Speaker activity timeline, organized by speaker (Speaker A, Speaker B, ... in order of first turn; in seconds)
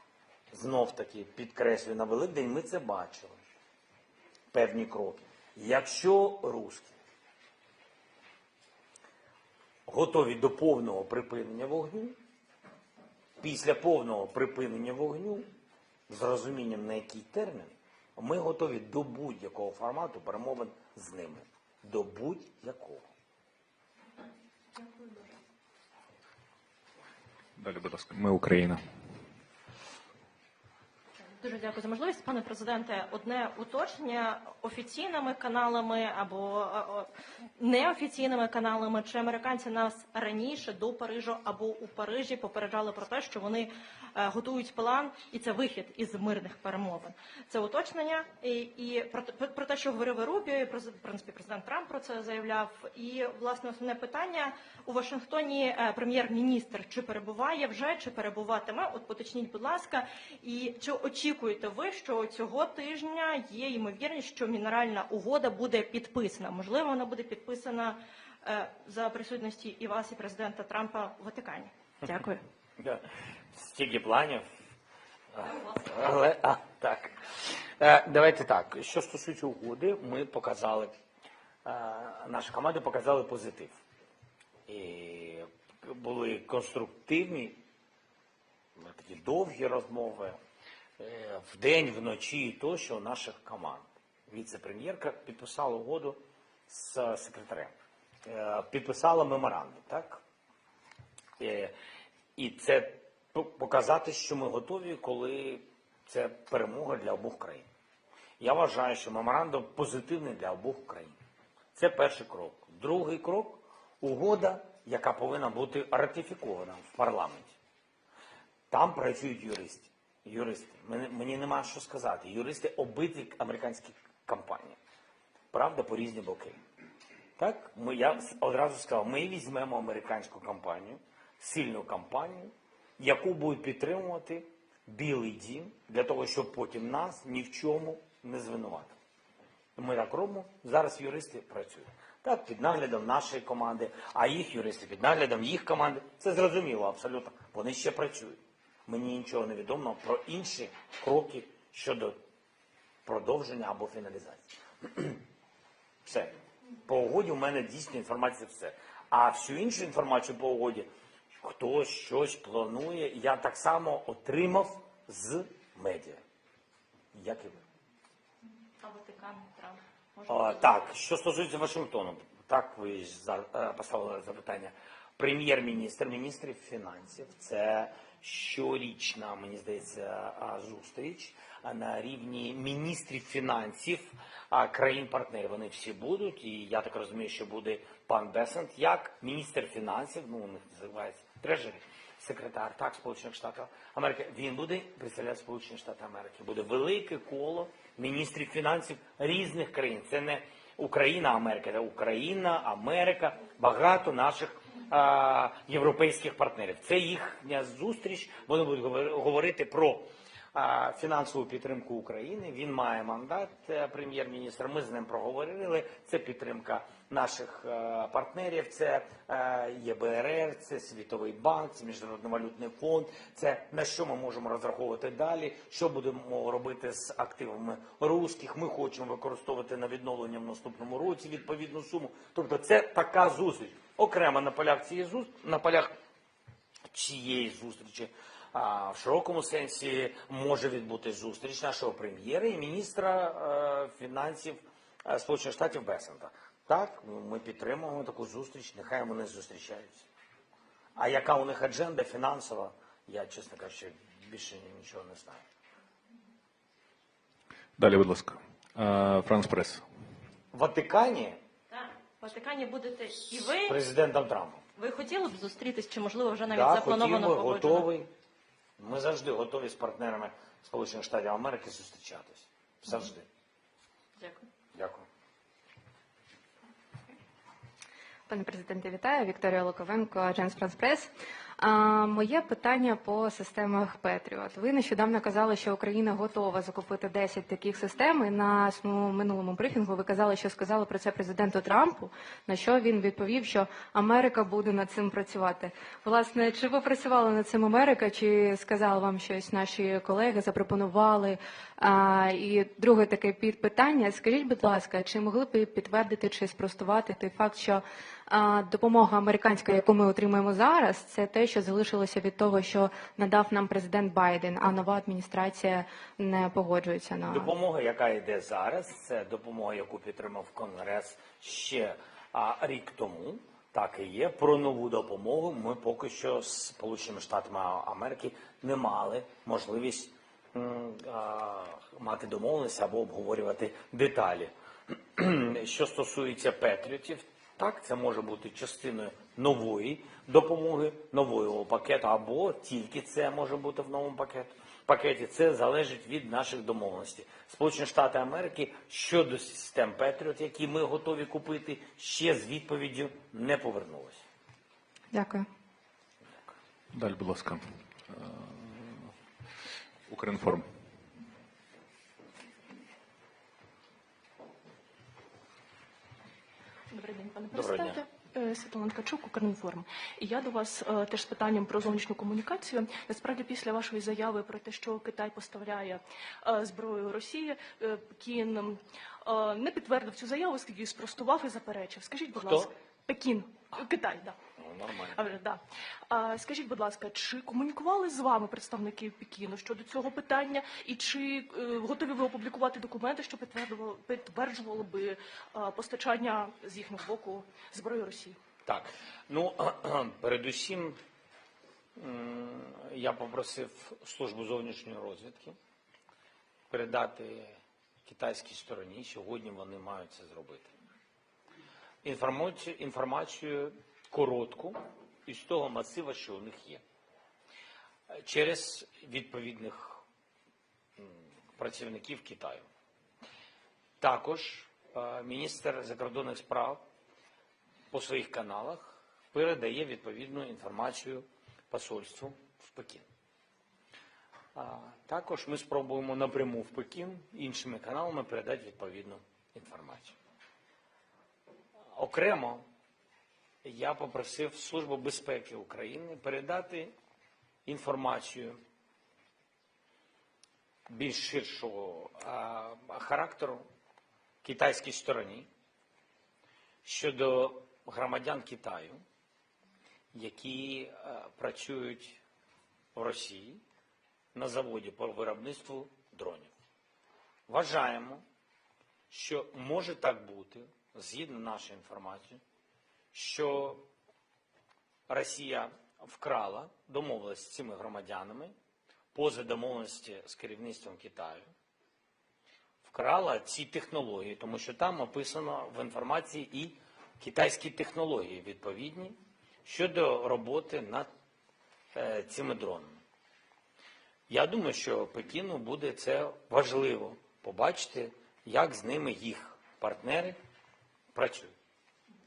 Speaker A: 0.5-3.4, 4.5-6.9, 9.8-12.2, 13.4-15.5, 16.1-23.0, 72.8-74.5, 75.3-77.2, 77.8-80.9, 81.6-83.8, 84.7-87.6, 88.8-90.4, 91.0-97.7, 98.2-100.2, 101.4-101.7, 102.3-107.7, 108.4-111.2, 111.7-117.5, 118.7-124.8, 125.5-126.6, 127.4-138.9, 139.8-152.2, 153.0-155.2, 156.0-160.9, 161.4-166.2, 167.1-167.6, 170.3-235.9, 236.9-250.1, 250.9-255.4, 260.5-261.4, 263.6-264.6, 266.5-268.1, 268.8-273.2, 274.7-275.0, 317.3-354.2, 367.5-368.0, 382.3-382.7, 384.6-385.2, 398.6-401.0, 402.0-405.6, 406.7-410.7, 412.0-416.8, 418.1-420.0, 421.0-422.7, 424.0-426.8, 427.9-433.1, 434.5-440.1, 441.9-442.6, 443.6-446.9, 447.6-448.6, 450.9-453.6, 454.4-455.5, 456.8-459.0, 460.1-462.2, 462.9-463.6, 464.3-466.5, 467.5-468.2, 469.1-472.4, 473.1-473.9, 475.1-478.5, 479.1-481.5, 482.8-491.1, 491.9-492.9, 494.3-500.4, 501.1-501.5
Speaker B: 24.8-25.3, 366.9-384.4, 385.1-398.4
Speaker C: 27.6-28.8, 257.8-259.8, 356.9-359.1, 360.1-360.7
Speaker D: 31.4-72.3, 168.8-170.7, 261.7-263.8, 264.8-267.9, 274.2-274.5
Speaker E: 278.3-317.5, 355.1-355.5